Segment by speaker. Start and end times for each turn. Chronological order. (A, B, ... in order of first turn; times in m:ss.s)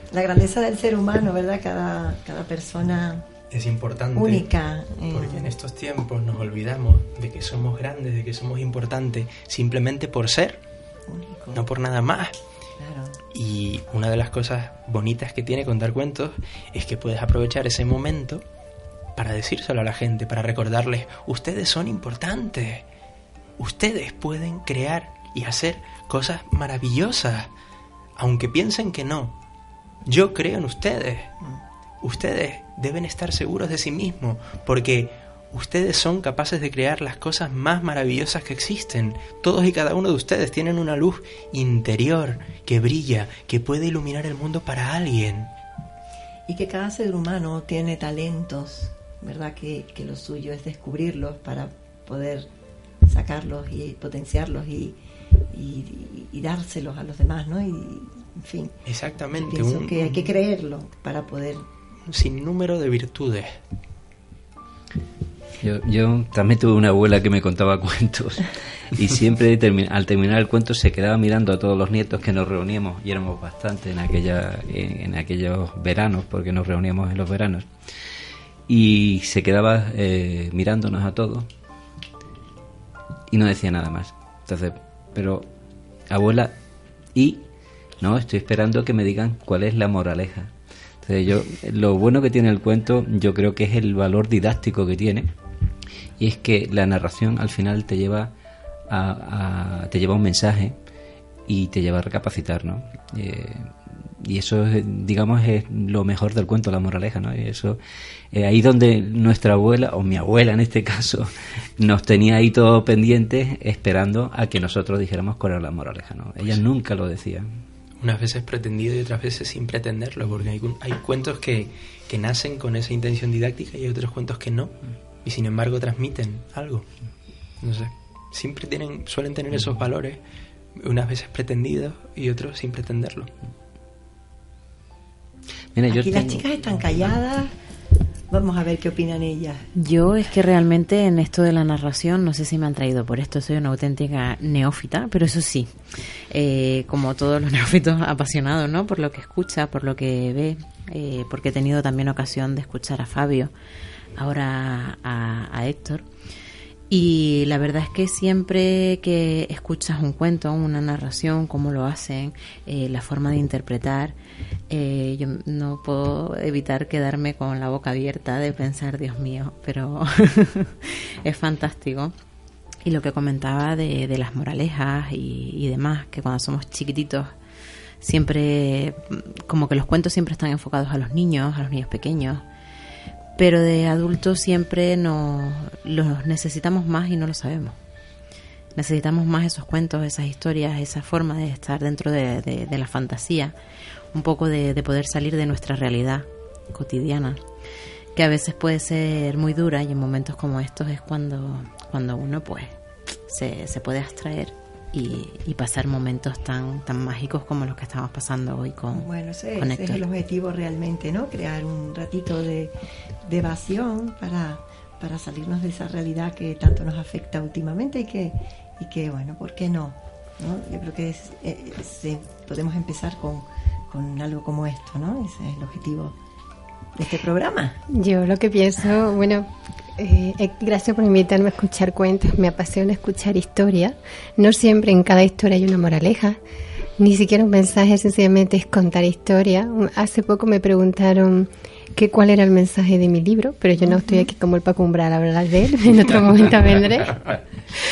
0:00.1-0:03.3 A
0:03.5-0:04.4 B
0:04.1-0:05.5 A
0:05.1-0:10.6 B
0:11.1-0:11.6 A
0:11.5-0:12.4 B
0:12.8-0:13.2 A
0:13.3-0:18.4 B
0:19.2-0:22.8 B
0:23.6-0:27.5 B
0:28.2-0:29.4 B
0:30.1-0:31.3 B
0:32.0-0:45.5 B
0:46.5-0:52.5 A
0:53.1-0:55.0 A
0:55.5-0:58.7 A
0:58.9-1:00.3 B
0:59.3-1:01.6 A
1:02.1-1:03.6 B
1:05.6-1:17.7 C
1:18.7-1:21.5 C
1:23.3-1:25.5 C
1:26.1-1:26.6 C
1:27.1-1:27.4 C
1:28.0-1:35.3 C
1:36.2-1:38.3 C
1:38.9-1:40.8 C
1:41.5-1:47.8 C
1:48.3-1:57.5 C
1:58.0-2:06.9 B
2:07.6-2:10.2 B
2:10.8-2:13.3 B
2:15.7-2:17.0 C
2:15.9-2:17.5 A
2:18.3-2:19.7 A
2:19.7-2:33.5 D
2:34.1-2:36.1 D
2:36.9-2:44.2 D
2:44.7-2:52.1 D
2:52.8-2:57.3 D
2:58.0-3:02.4 D
3:03.4-3:07.8 D
3:08.7-3:13.6 D
3:14.1-3:17.4 D
3:18.1-3:29.1 D
3:28.9-3:46.2 A
3:29.6-3:30.0 D
3:47.0-3:47.8 A
3:47.9-3:56.4 E
3:57.0-4:07.4 E